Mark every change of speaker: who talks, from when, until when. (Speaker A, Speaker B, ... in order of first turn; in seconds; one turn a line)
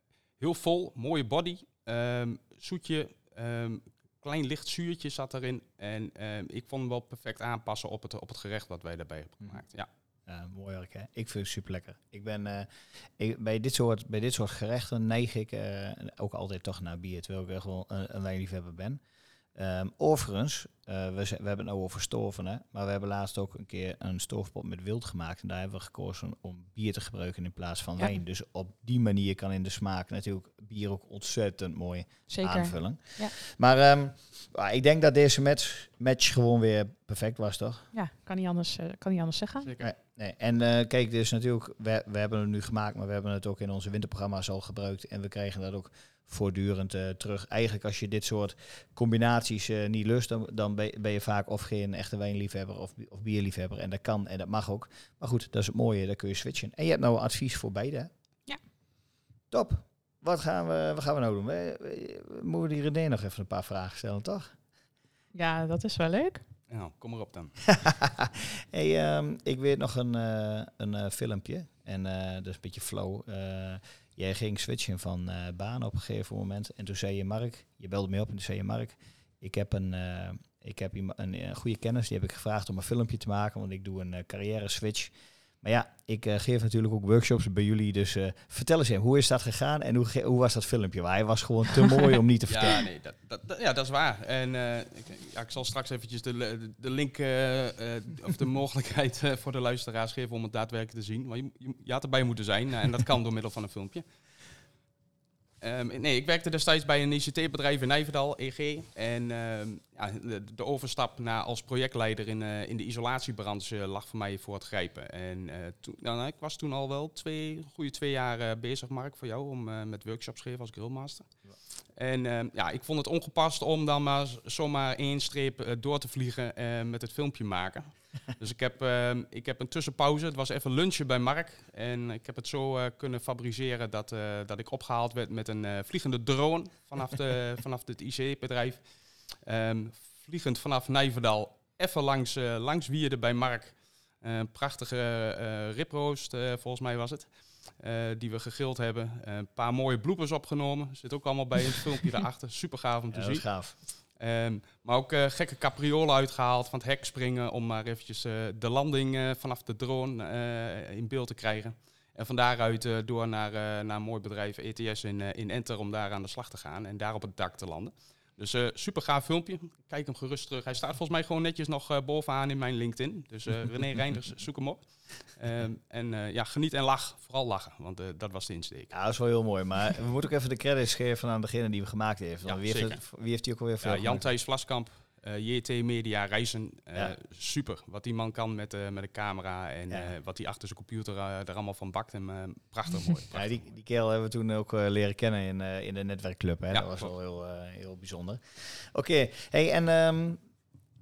Speaker A: 0.4-9.9
Speaker B: 10.3-19.0
Speaker B: 19.6-37.9
Speaker C: 32.3-33.4
Speaker C: 37.9-39.7
Speaker B: 39.8-58.1
Speaker B: 59.5-64.5
Speaker C: 65.3-66.4
Speaker A: 66.7-67.7
Speaker B: 67.7-92.9
Speaker A: 92.5-104.0
Speaker A: 105.6-121.3
Speaker A: 122.0-153.5
Speaker B: 153.1-153.7
Speaker A: 154.2-178.9
Speaker B: 178.9-184.3
Speaker A: 182.4-183.0
Speaker A: 183.8-193.7
Speaker B: 193.3-200.4
Speaker A: 196.7-197.1